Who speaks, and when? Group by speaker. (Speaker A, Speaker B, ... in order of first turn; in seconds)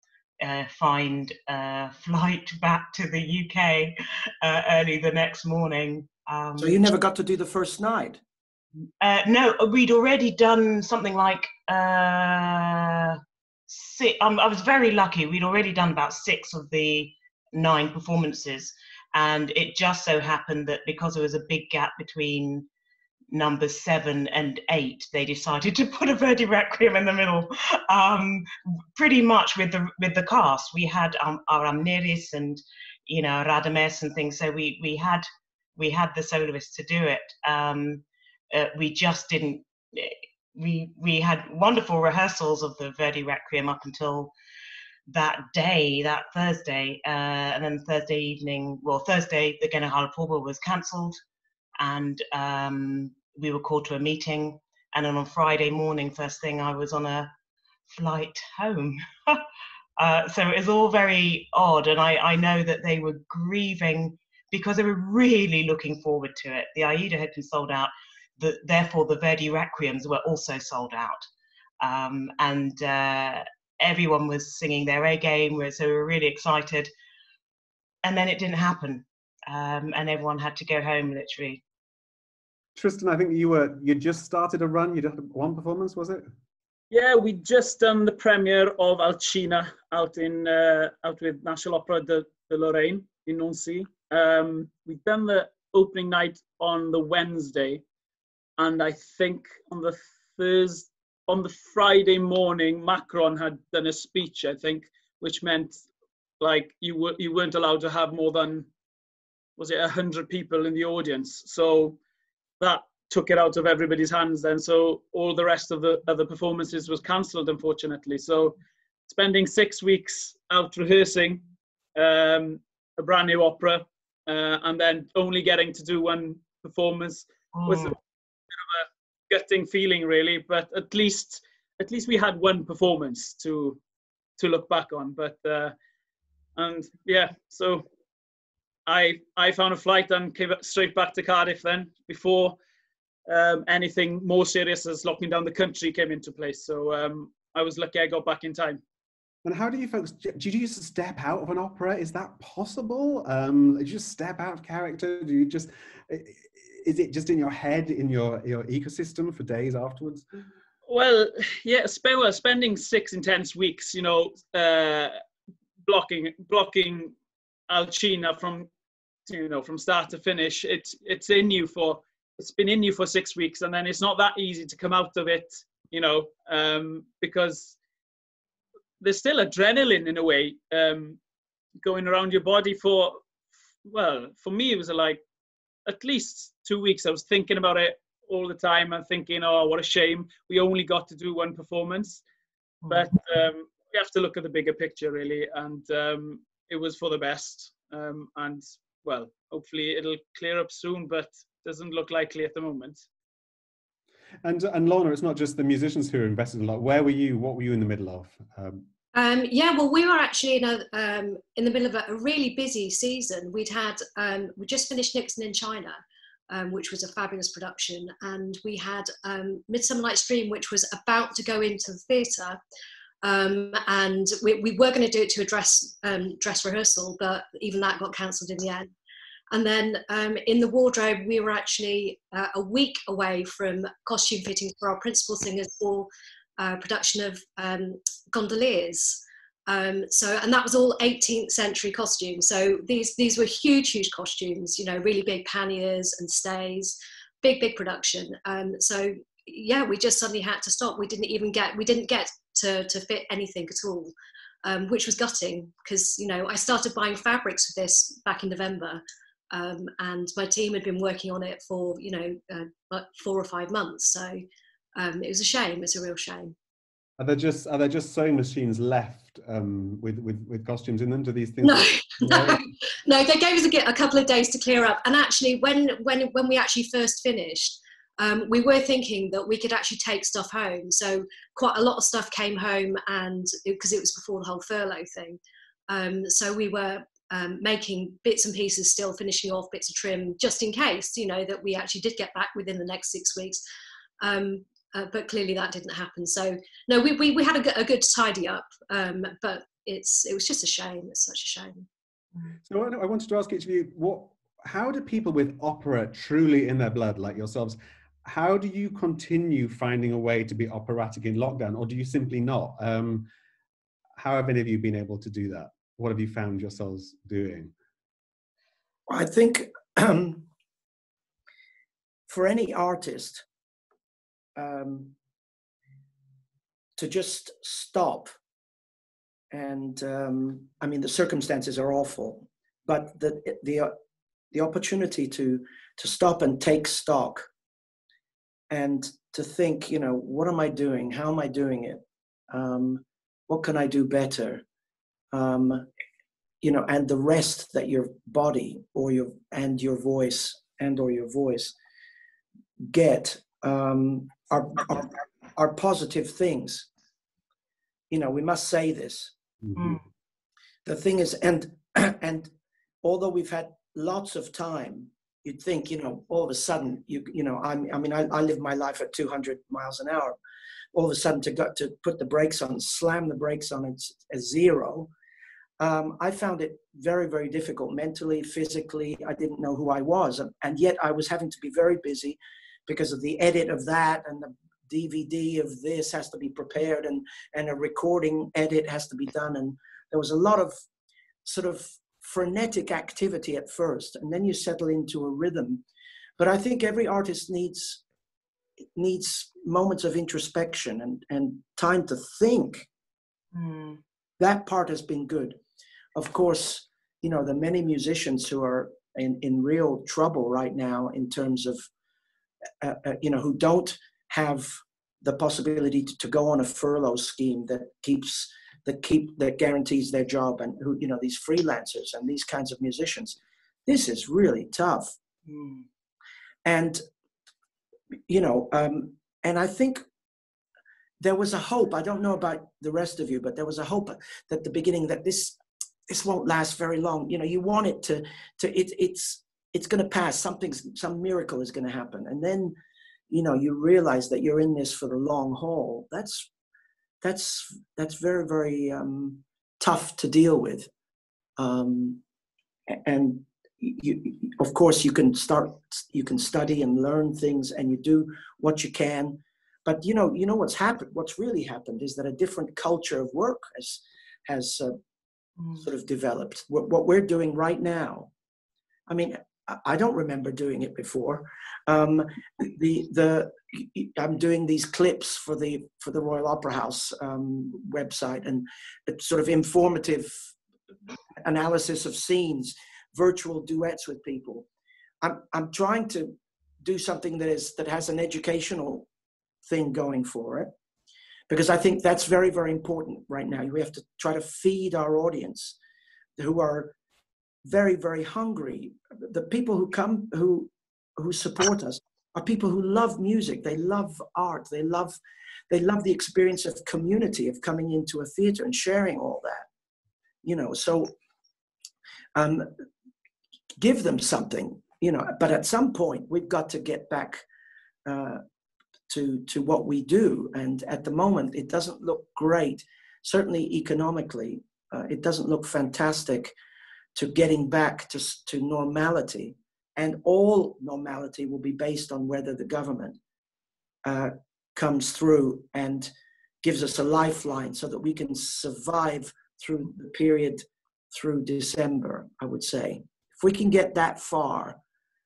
Speaker A: 0.4-6.8, 9.0-22.6, 23.3-35.2, 35.8-44.3, 45.1-51.2, 51.8-57.3, 57.9-59.4, 60.0-71.2, 71.8-76.9, 78.0-81.6, 127.5-127.9, 359.8-360.0, 403.5-404.0, 425.5-425.8
Speaker B: 6.6-8.2, 319.1-320.5, 322.3-323.4, 324.6-325.1, 327.0-328.3, 329.5-333.9, 334.5-337.5, 338.7-344.6, 345.3-345.9, 346.6-351.7, 352.8-356.9, 358.1-359.3, 360.8-362.5, 363.0-370.4, 370.9-375.1, 375.8-390.7, 391.4-395.8, 396.4-398.0, 398.9-402.9, 404.4-405.6, 406.1-411.8, 412.8-425.1, 426.6-427.0, 428.3-430.0, 431.2-435.6, 436.1-442.7, 443.3-446.5, 447.2-450.9, 451.6-452.2, 452.9-464.9, 465.8-468.3, 469.1-480.4, 481.4-484.6, 485.2-489.1, 489.7-490.7, 491.5-495.8, 496.4-496.9, 497.6-505.2, 505.7-509.6, 510.4-511.1, 512.3-512.7, 513.8-517.4, 518.0-518.4, 519.1-526.5, 527.1-533.2, 534.0-536.1, 536.6-544.8
Speaker C: 82.8-86.2, 149.4-160.2, 204.4-208.8, 267.2-272.6, 302.7-313.3, 314.2-317.7
Speaker D: 86.9-97.8, 98.6-105.8, 106.4-108.7, 109.6-112.0, 112.6-118.5, 119.1-121.4, 121.9-128.0, 128.7-133.8, 134.4-135.7, 136.6-137.8, 138.8-142.6, 143.3-148.8, 160.9-165.2, 165.8-167.1, 167.7-168.7, 169.2-177.8, 179.0-181.2, 181.8-183.2, 183.8-185.2, 185.8-192.2, 192.9-203.0
Speaker E: 209.1-222.6, 223.2-228.9, 229.5-254.1, 254.6-264.4, 264.9-266.5, 271.6-293.6, 294.2-301.9